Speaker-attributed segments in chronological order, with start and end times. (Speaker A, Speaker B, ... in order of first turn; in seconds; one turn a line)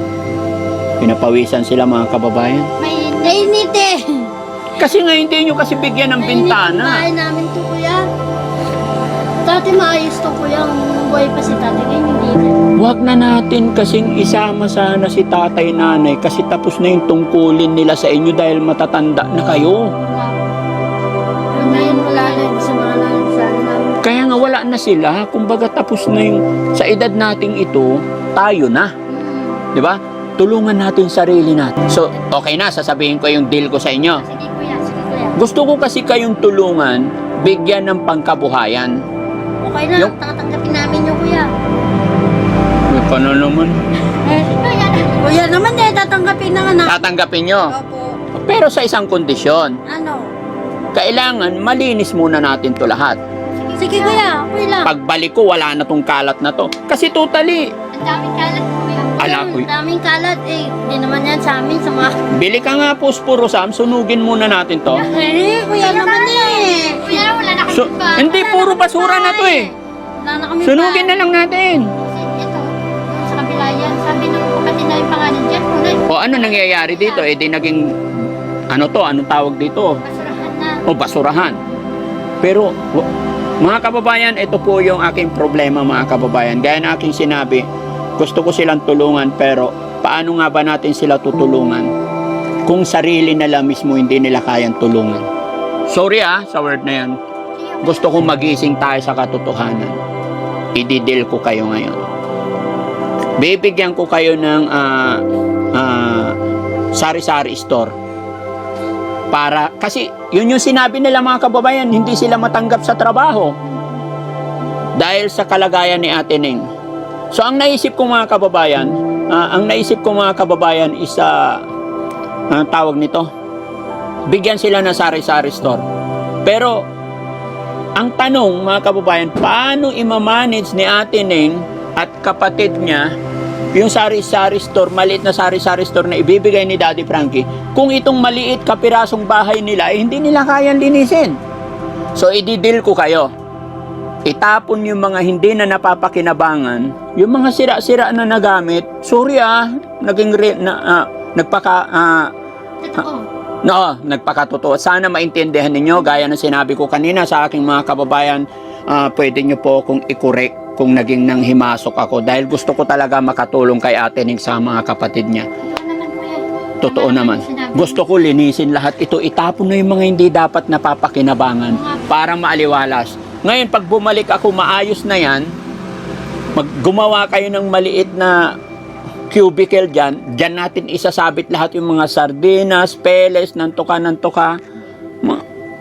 Speaker A: 1.0-2.7
Speaker B: 2.8-3.5
Speaker C: 3.2-4.3
Speaker A: 4.8-7.0
Speaker C: 6.2-8.0
Speaker C: 9.4-12.6
Speaker A: 12.8-19.9
Speaker B: 20.0-20.4
Speaker C: 21.5-24.1
Speaker B: 21.5-22.6
Speaker A: 24.0-28.9
Speaker B: 29.1-29.6
Speaker A: 29.7-34.2
Speaker B: 34.2-34.9
Speaker C: 34.8-35.4
Speaker A: 35.4-39.0
Speaker C: 39.6-41.5
Speaker A: 42.9-43.8
Speaker B: 44.2-45.4
Speaker C: 45.2-47.1
Speaker A: 46.9-47.8
Speaker C: 47.6-48.2
Speaker A: 48.3-49.8
Speaker C: 49.9-50.3
Speaker A: 50.9-53.2
Speaker B: 53.5-54.2
Speaker C: 53.8-54.9
Speaker A: 54.8-57.7
Speaker B: 57.9-59.4
Speaker C: 59.2-62.2
Speaker A: 59.2-59.7
Speaker A: 62.3-65.0
Speaker C: 65.0-67.2
Speaker B: 65.7-68.8
Speaker A: 67.7-69.7
Speaker C: 68.3-71.3
Speaker A: 70.6-71.9
Speaker B: 72.0-77.3
Speaker A: 76.1-78.0
Speaker A: 78.7-80.0
Speaker B: 80.0-80.8
Speaker A: 80.9-81.6
Speaker A: 82.4-83.0
Speaker A: 83.6-87.6
Speaker A: 88.2-91.9
Speaker A: 92.7-95.2
Speaker A: 95.9-97.2
Speaker B: 97.5-98.3
Speaker A: 97.8-100.0
Speaker A: 100.7-102.0
Speaker A: 103.4-106.3
Speaker A: 106.9-107.9
Speaker A: 109.3-113.5
Speaker A: 115.0-116.7
Speaker A: 117.3-121.6
Speaker A: 122.5-123.3
Speaker A: 124.3-125.8
Speaker A: 126.4-126.8
Speaker A: 128.0-133.1
Speaker A: 133.7-141.4
Speaker A: 142.1-143.3
Speaker A: 144.2-152.3
Speaker B: 152.8-153.3
Speaker A: 153.6-165.5
Speaker B: 165.6-168.0
Speaker A: 166.8-175.5
Speaker B: 171.7-172.3
Speaker A: 176.5-178.4
Speaker A: 179.3-184.6